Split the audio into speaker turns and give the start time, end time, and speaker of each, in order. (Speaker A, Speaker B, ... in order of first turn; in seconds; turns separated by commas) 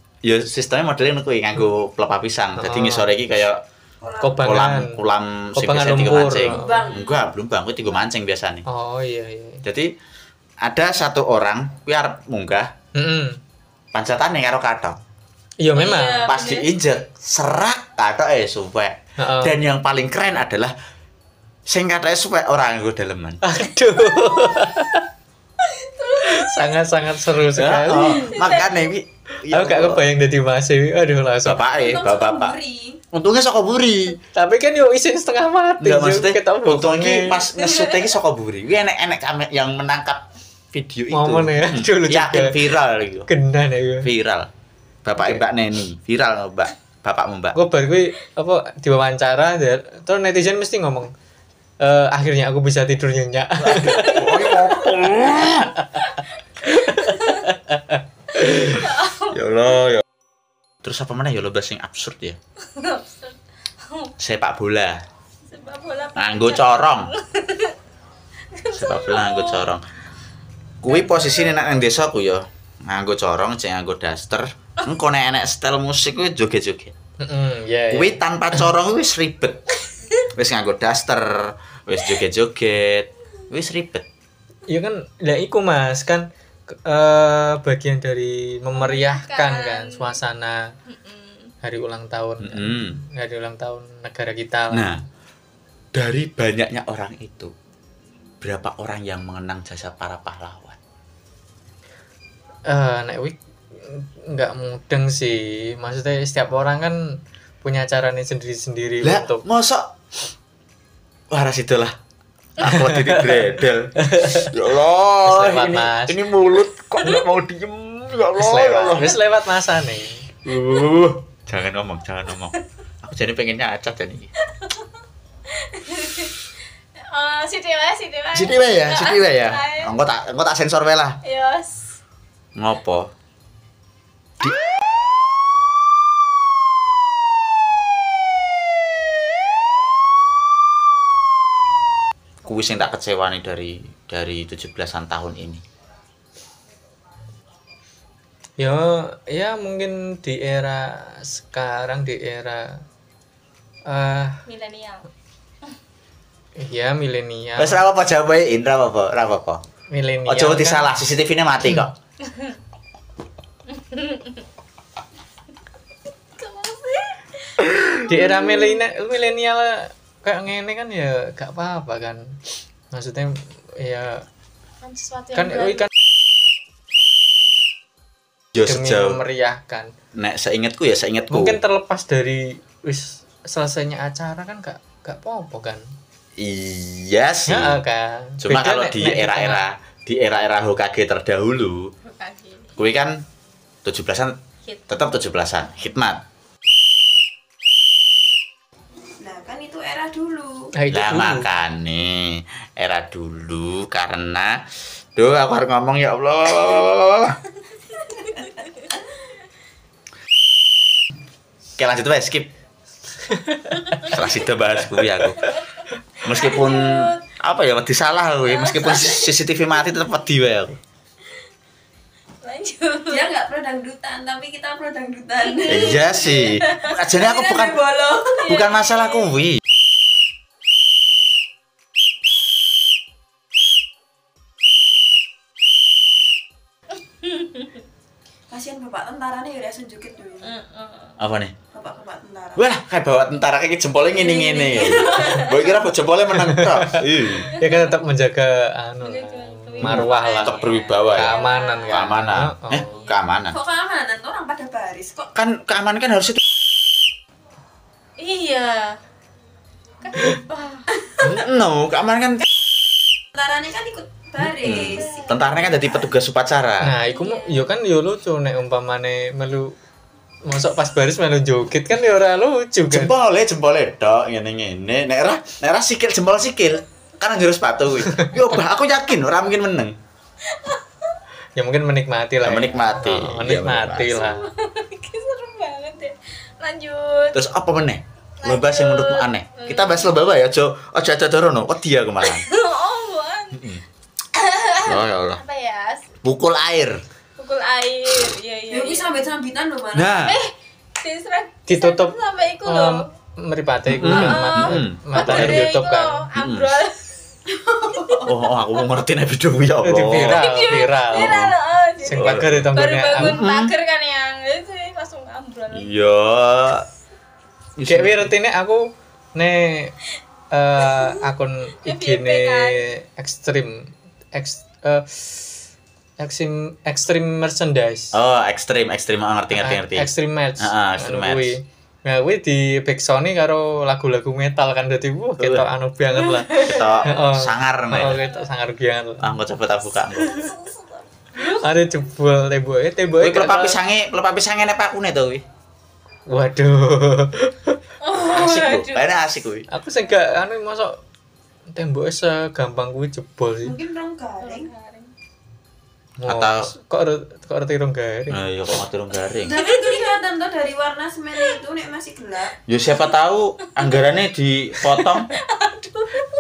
Speaker A: 0.2-3.6, Speaker B: 2.6-3.1, Speaker C: 4.0-4.5, Speaker B: 4.2-5.0, Speaker A: 4.4-8.7, Speaker B: 5.6-6.7, Speaker C: 6.5-7.2, Speaker D: 6.7-7.0, Speaker B: 8.7-9.7, Speaker A: 9.6-9.9, Speaker A: 10.6-12.7, Speaker B: 12.9-13.4, Speaker A: 13.9-15.0, Speaker B: 15.6-16.3, Speaker D: 15.8-16.7, Speaker A: 16.3-20.8, Speaker B: 19.2-19.6, Speaker A: 21.7-23.4, Speaker B: 23.4-25.1, Speaker D: 25.6-26.9, Speaker B: 26.1-28.4, Speaker A: 27.5-30.1, Speaker D: 27.9-28.9, Speaker B: 29.5-31.6, Speaker A: 31.4-32.6, Speaker C: 31.7-33.0, Speaker A: 33.1-34.2, Speaker B: 34.3-37.5, Speaker A: 35.8-43.3, Speaker D: 37.6-38.0, Speaker B: 41.1-42.7, Speaker B: 43.3-44.1, Speaker A: 44.0-44.5, Speaker A: 45.0-47.6, Speaker B: 45.2-45.5, Speaker B: 47.5-51.1, Speaker B: 51.8-54.5, Speaker A: 53.6-55.7, Speaker B: 56.6-58.0, Speaker D: 57.0-57.4, Speaker D: 58.3-59.8, Speaker A: 59.3-60.0, Speaker A: 60.8-62.4, Speaker D: 62.7-64.1, Speaker A: 64.2-65.0, Speaker D: 65.5-67.8, Speaker A: 66.2-67.1, Speaker D: 68.5-69.7, Speaker A: 68.7-69.8, Speaker A: 70.8-77.0, Speaker D: 70.9-71.5, Speaker B: 77.2-78.2, Speaker A: 77.9-84.1, Speaker B: 84.7-90.7, Speaker D: 88.7-90.2, Speaker D: 90.9-91.5, Speaker B: 91.6-94.9, Speaker A: 92.4-93.0, Speaker A: 94.7-95.0, Speaker A: 95.9-97.5, Speaker A: 98.4-100.8, Speaker B: 102.7-107.0, Speaker B: 107.6-109.4, Speaker A: 109.0-109.9, Speaker A: 111.3-112.0, Speaker A: 112.6-119.2, Speaker B: 114.2-114.5, Speaker B: 115.2-116.2, Speaker B: 118.4-120.2, Speaker A: 120.5-124.3, Speaker D: 124.5-124.8, Speaker D: 125.5-126.4, Speaker D: 127.0-129.9, Speaker A: 128.3-131.2, Speaker D: 131.2-132.0, Speaker A: 132.6-133.1, Speaker A: 142.4-145.6, Speaker B: 148.6-152.8, Speaker B: 153.9-154.4, Speaker D: 154.5-155.1, Speaker B: 156.6-157.8, Speaker A: 157.6-159.6, Speaker B: 159.9-160.9, Speaker A: 160.3-161.9, Speaker D: 163.7-164.4, Speaker D: 166.4-167.6, Speaker B: 168.1-172.4, Speaker D: 168.1-168.8, Speaker B: 172.9-174.2, Speaker D: 174.8-175.9, Speaker A: 178.5-179.2, Speaker B: 178.6-179.9, Speaker A: 180.2-181.6, Speaker B: 181.3-185.8, Speaker A: 186.4-187.8, Speaker B: 187.5-189.6, Speaker A: 188.4-191.9, Speaker D: 192.1-192.7, Speaker A: 192.8-193.2, Speaker A: 193.8-194.3, Speaker A: 194.9-196.2, Speaker C: 199.2-200.7, Speaker B: 200.8-201.5, Speaker A: 200.9-204.6, Speaker A: 205.2-207.4, Speaker D: 208.2-208.8, Speaker A: 211.8-212.5, Speaker A: 214.0-215.5, Speaker D: 216.2-217.2, Speaker A: 216.2-220.8, Speaker D: 218.5-219.4, Speaker D: 222.4-223.3, Speaker C: 223.1-226.4, Speaker D: 225.4-227.0, Speaker A: 225.7-227.8, Speaker C: 227.1-228.6, Speaker D: 228.2-229.4, Speaker A: 228.4-229.6, Speaker C: 238.5-240.6, Speaker D: 240.4-241.2, Speaker A: 241.2-241.5, Speaker C: 241.7-242.6, Speaker A: 242.6-247.5, Speaker C: 244.3-245.5, Speaker D: 244.4-245.7, Speaker B: 246.4-250.6, Speaker D: 247.5-247.9, Speaker D: 249.0-252.2, Speaker A: 249.8-253.6, Speaker B: 251.1-253.1, Speaker D: 252.7-253.2, Speaker C: 253.5-255.3, Speaker A: 255.3-256.4, Speaker D: 258.2-259.0, Speaker D: 260.0-260.9, Speaker A: 261.2-262.4, Speaker C: 263.4-266.1, Speaker A: 264.5-266.9, Speaker D: 264.7-265.4, Speaker B: 266.8-269.8, Speaker D: 267.1-267.7, Speaker B: 270.4-273.1, Speaker A: 272.9-280.0, Speaker D: 280.5-280.9, Speaker B: 281.6-284.5, Speaker A: 282.4-284.4, Speaker D: 284.2-287.4, Speaker A: 287.3-292.5, Speaker D: 288.4-290.2, Speaker D: 292.2-293.7, Speaker A: 293.5-293.8, Speaker D: 294.3-296.1, Speaker A: 294.8-295.4, Speaker A: 296.2-297.0, Speaker D: 297.4-299.3, Speaker C: 298.7-300.2, Speaker A: 299.9-300.4, Speaker D: 300.2-303.1, Speaker B: 301.7-306.3, Speaker A: 303.9-305.7, Speaker D: 304.1-307.1, Speaker A: 306.4-306.7, Speaker C: 307.5-308.3, Speaker D: 307.8-308.3, Speaker A: 308.2-311.6, Speaker B: 309.8-311.4, Speaker D: 310.1-315.9, Speaker B: 312.0-313.4, Speaker A: 312.1-313.7, Speaker A: 315.7-316.9, Speaker A: 317.8-318.3, Speaker B: 317.9-319.9, Speaker B: 320.5-325.6, Speaker D: 320.9-321.2, Speaker D: 321.8-322.9, Speaker B: 326.2-328.2, Speaker A: 328.1-331.6, Speaker B: 329.5-339.3, Speaker A: 335.4-335.6, Speaker A: 336.6-338.2, Speaker A: 339.2-340.5, Speaker D: 340.3-341.8, Speaker B: 341.4-343.8, Speaker A: 343.2-345.4, Speaker B: 346.3-347.8, Speaker D: 348.0-349.1, Speaker A: 348.2-349.7, Speaker B: 349.7-351.0, Speaker B: 351.7-353.8, Speaker C: 353.6-354.7, Speaker D: 354.4-355.1, Speaker B: 356.2-358.4, Speaker A: 356.2-356.7, Speaker A: 358.3-359.6, Speaker C: 359.4-362.6, Speaker D: 359.5-360.2, Speaker A: 362.7-365.3, Speaker D: 365.3-366.2